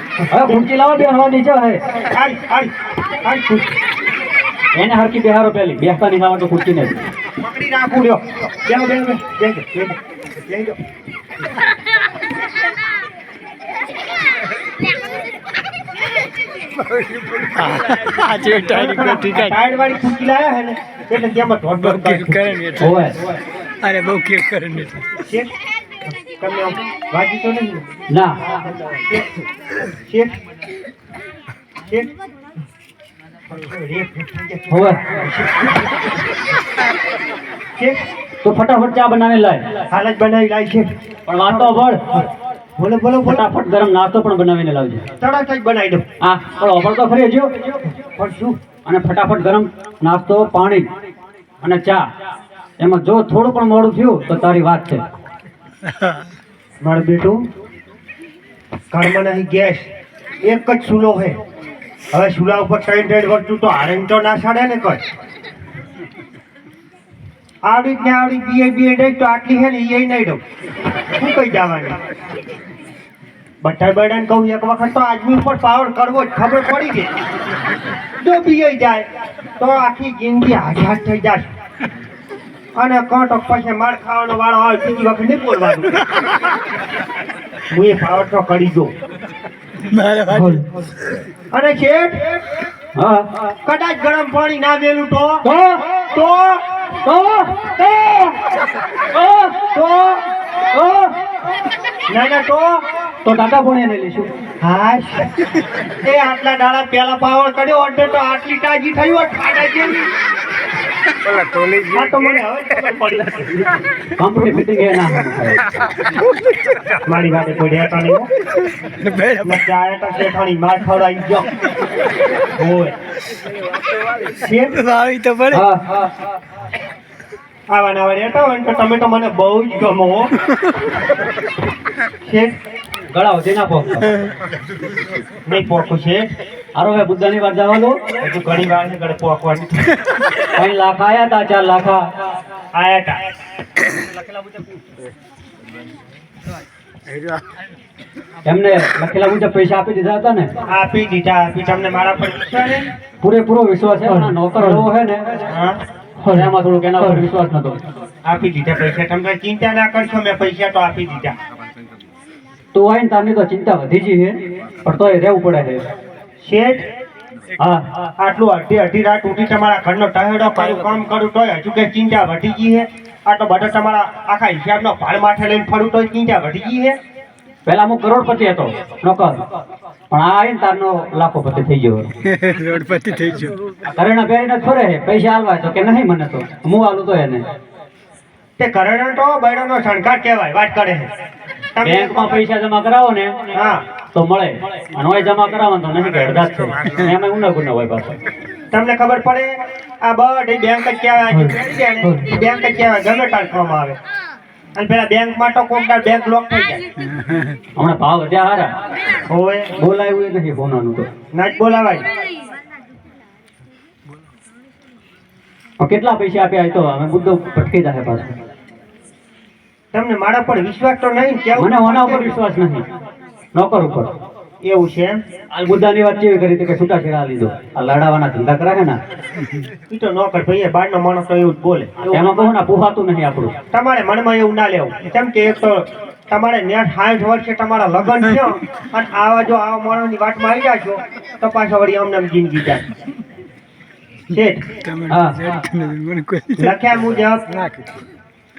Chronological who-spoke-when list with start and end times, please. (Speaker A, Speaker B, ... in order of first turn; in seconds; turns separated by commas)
Speaker A: 0.3-1.8, Speaker B: 1.9-3.7, Speaker A: 4.7-7.0, Speaker B: 7.4-10.8, Speaker C: 17.5-19.5, Speaker B: 18.7-22.6, Speaker C: 21.8-22.9, Speaker A: 22.8-23.2, Speaker C: 23.8-25.1, Speaker B: 25.2-27.9, Speaker A: 28.1-28.4, Speaker B: 28.8-30.4, Speaker B: 31.8-32.1, Speaker B: 33.5-35.9, Speaker A: 34.7-35.0, Speaker B: 37.8-38.0, Speaker A: 38.4-39.7, Speaker B: 39.9-40.9, Speaker A: 41.3-42.0, Speaker B: 41.5-42.0, Speaker B: 42.8-43.4, Speaker A: 43.2-45.0, Speaker B: 45.2-46.0, Speaker A: 46.2-47.7, Speaker B: 48.1-48.6, Speaker A: 48.8-50.9, Speaker A: 51.6-52.0, Speaker A: 52.8-55.0, Speaker B: 56.8-57.4, Speaker B: 58.9-59.9, Speaker B: 60.4-61.4, Speaker B: 62.1-65.0, Speaker B: 67.6-70.4, Speaker B: 71.1-72.0, Speaker B: 73.6-77.1, Speaker B: 78.2-81.5, Speaker B: 82.7-86.3, Speaker B: 87.7-88.9, Speaker C: 89.8-90.6, Speaker B: 91.5-92.2, Speaker A: 93.0-93.3, Speaker B: 93.6-95.4, Speaker A: 95.4-95.8, Speaker B: 96.0-96.6, Speaker A: 97.0-98.2, Speaker B: 97.9-98.3, Speaker A: 99.1-99.6, Speaker B: 99.7-100.2, Speaker A: 100.7-101.1, Speaker B: 102.1-102.8, Speaker A: 103.2-104.3, Speaker B: 104.6-110.1, Speaker B: 111.8-113.8, Speaker A: 114.2-115.7, Speaker B: 117.0-118.3, Speaker C: 118.8-119.6, Speaker B: 119.4-121.6, Speaker B: 122.5-122.9, Speaker B: 124.3-124.8, Speaker C: 124.8-125.6, Speaker A: 125.5-125.8, Speaker B: 127.7-130.3, Speaker B: 132.2-132.5, Speaker A: 133.1-134.1, Speaker B: 135.4-136.3, Speaker A: 136.8-138.0, Speaker B: 138.2-139.8, Speaker A: 140.5-142.1, Speaker B: 142.7-143.2, Speaker A: 148.4-150.5, Speaker B: 150.7-152.9, Speaker A: 153.2-155.5, Speaker B: 155.5-155.8, Speaker A: 156.2-157.8, Speaker B: 158.2-161.3, Speaker A: 162.7-165.8, Speaker B: 166.4-166.9, Speaker A: 167.6-167.9, Speaker B: 168.2-177.0, Speaker A: 177.7-179.4, Speaker A: 180.1-182.1, Speaker C: 182.2-183.6, Speaker A: 183.8-187.4, Speaker B: 188.6-191.1, Speaker B: 191.8-192.4, Speaker A: 191.8-193.5, Speaker B: 193.5-193.8, Speaker A: 194.1-198.2, Speaker B: 198.7-204.0, Speaker B: 204.7-206.8, Speaker C: 207.2-207.5, Speaker A: 207.8-208.7, Speaker B: 209.3-209.7, Speaker A: 209.8-211.1, Speaker B: 211.3-212.1, Speaker A: 215.8-218.3, Speaker B: 219.9-222.4, Speaker A: 221.6-222.8, Speaker A: 223.5-224.1, Speaker B: 224.6-225.2, Speaker A: 225.5-229.0, Speaker B: 229.9-232.6, Speaker A: 232.1-233.5, Speaker B: 233.7-242.8, Speaker B: 244.3-244.7, Speaker C: 244.8-246.7, Speaker A: 245.1-245.5, Speaker B: 246.6-247.4